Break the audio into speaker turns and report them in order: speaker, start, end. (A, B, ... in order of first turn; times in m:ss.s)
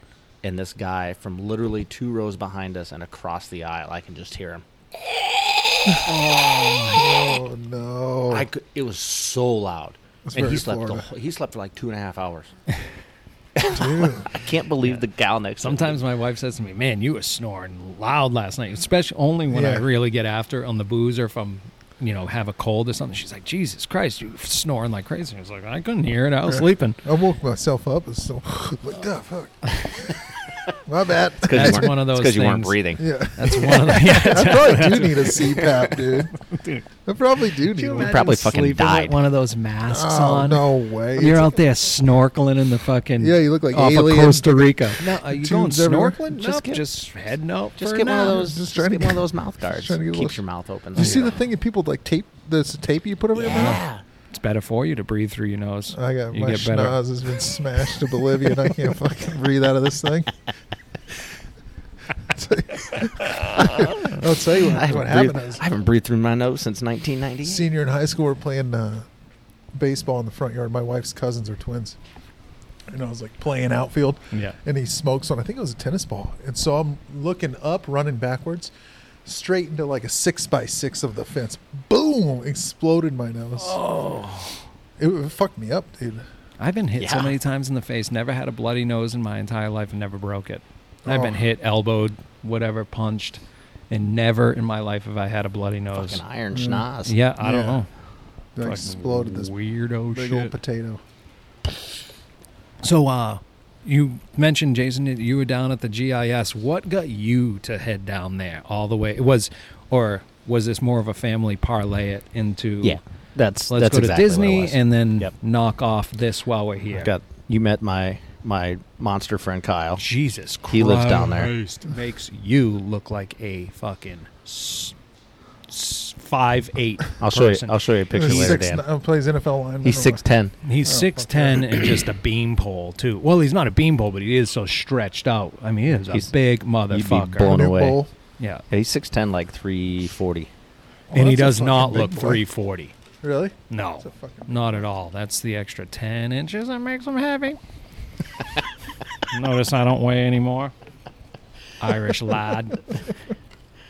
0:00.4-0:04.6 A
0:05.9-0:06.8 A
0:06.1-0:07.0 B
0:06.9-0:08.5 C
0:08.3-0:12.5 A
0:10.3-0:11.0 C
0:13.6-0:16.0 A
0:13.7-0:14.3 C
0:15.6-0:27.0 B
0:19.5-0:19.9 C
0:26.5-0:30.1 C
0:30.8-0:31.9 C
0:31.4-0:33.0 A
0:31.5-0:32.8 B
0:33.0-0:36.3 C
0:33.3-0:36.8 B
0:37.0-0:38.2 C
0:37.6-0:48.4 B
0:37.9-0:39.2 A
0:39.9-0:41.6 C
0:43.2-0:46.4 C
0:46.3-0:46.8 A
0:47.8-0:51.3 A
0:48.1-0:50.4 C
0:50.9-0:53.8 C
0:51.0-0:51.4 B
0:53.3-0:54.0 A
0:54.3-0:57.0 B
0:55.9-1:00.3 C
1:02.3-1:05.6 C
1:03.6-1:07.7 A
1:07.4-1:09.1 C
1:09.7-1:12.0 C
1:12.9-1:18.7 C
1:19.2-1:23.8 C
1:23.6-1:24.5 A
1:25.0-1:26.2 C
1:26.6-1:36.2 B
1:27.0-1:27.4 A
1:31.0-1:31.4 C
1:35.9-1:37.1 A
1:36.5-1:36.9 C
1:37.0-1:37.9 B
1:37.4-1:37.8 C
1:38.6-1:39.5 C
1:38.6-1:40.5 B
1:40.1-1:41.0 C
1:42.8-1:53.0 B
1:52.8-1:55.3 A
1:53.7-1:57.1 B
1:56.9-2:00.0 A
2:00.0-2:05.0 B
2:00.7-2:01.5 A
2:05.7-2:08.6 B
2:07.2-2:08.8 A
2:08.1-2:10.2 C
2:09.8-2:10.5 A
2:10.6-2:17.6 B
2:10.8-2:11.8 C
2:16.9-2:18.0 A
2:17.4-2:18.1 C
2:18.7-2:20.5 A
2:21.1-2:22.4 C
2:21.1-2:22.9 B
2:23.2-2:24.7 C
2:23.7-2:27.6 B
2:29.2-2:30.7 B
2:31.8-2:33.0 B